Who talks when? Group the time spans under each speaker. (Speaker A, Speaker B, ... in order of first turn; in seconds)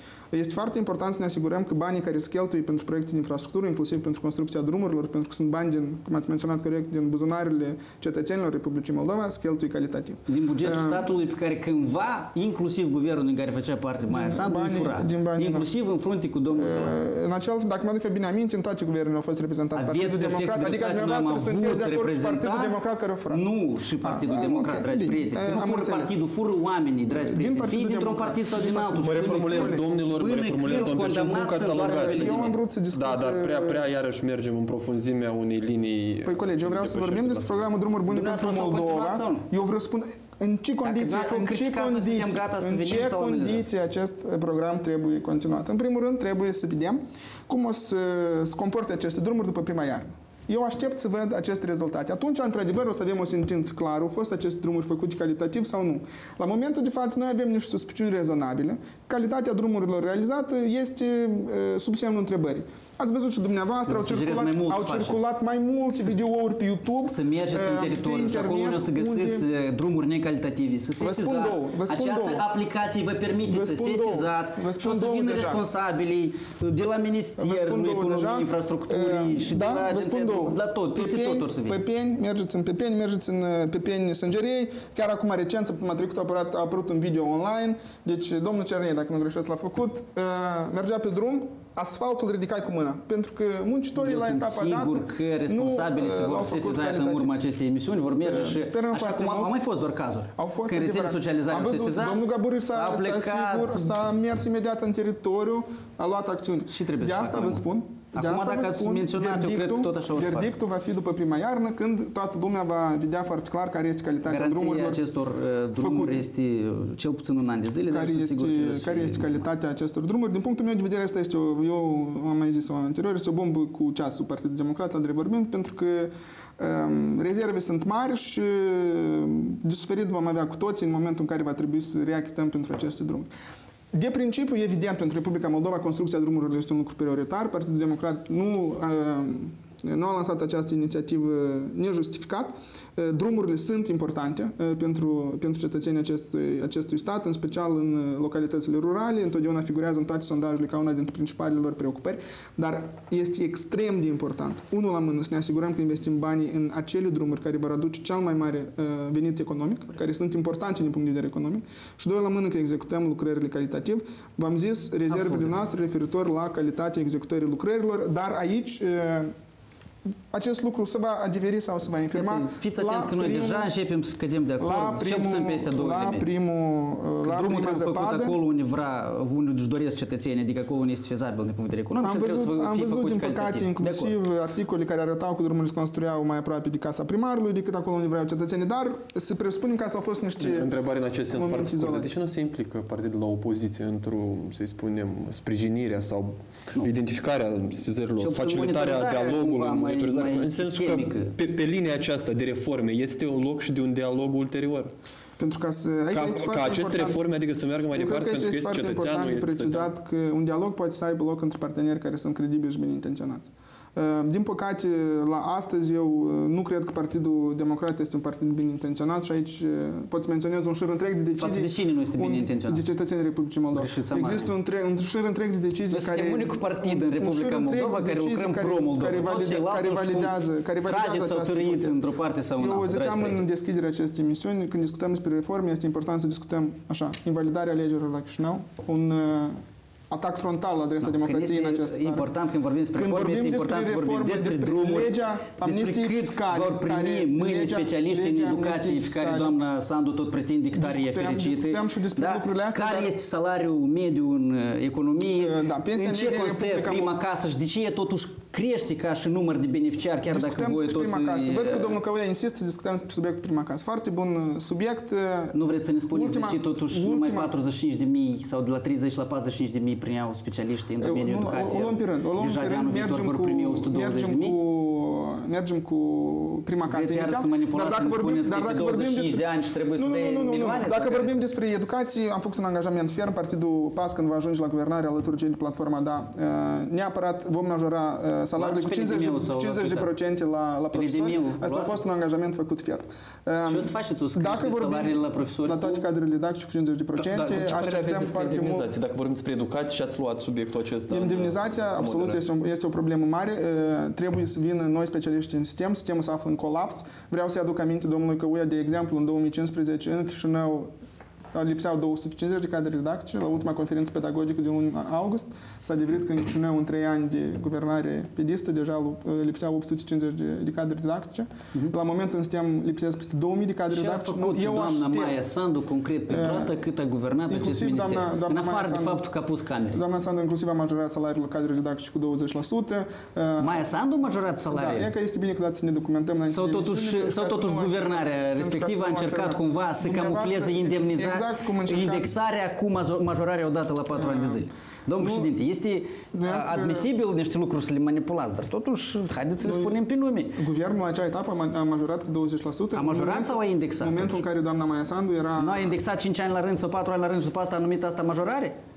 Speaker A: 0.3-11.1, 14.1-15.7, 16.5-23.4, 24.0-26.1, 27.1-29.8, 30.7-33.8, 36.2-69.5, 71.0-72.5, 73.5-75.6, 77.4-97.3, 98.2-99.6, 100.4-115.0, 115.8-116.2, 117.9-133.3, 133.9-169.3, 170.3-173.7, 174.6-178.4, 182.0-190.7, 191.3-192.1, 205.4-207.2, 207.9-232.0, 232.6-242.3, 242.9-249.6, 250.7-253.1, 255.4-257.1, 260.3-267.5, 271.0-279.4, 279.9-298.9, 301.1-310.9, 311.5-325.4, 326.3-326.8, 327.5-329.2, 329.9-333.9, 334.7-342.3, 344.1-344.6, 345.2-345.5, 346.3-347.1, 349.6-350.0, 350.6-355.9
Speaker B: 10.3-16.9, 19.7-32.5, 38.1-39.5, 40.8-43.6, 63.9-65.2, 67.0-81.8, 94.0-104.0, 106.7-110.5, 114.2-119.5, 165.1-165.5, 172.1-176.3, 177.2-184.2, 198.2-201.3, 221.4-222.8, 223.7-224.5, 225.9-233.4, 241.0-261.9, 265.5-274.6, 276.9-281.3, 288.6-290.1, 290.9-292.0, 293.7-296.0, 323.9-330.0, 333.6-335.1, 336.5-350.6, 352.9-354.4, 355.6-358.7
Speaker C: 29.0-37.7, 190.4-204.9, 206.1-209.9, 297.1-302.4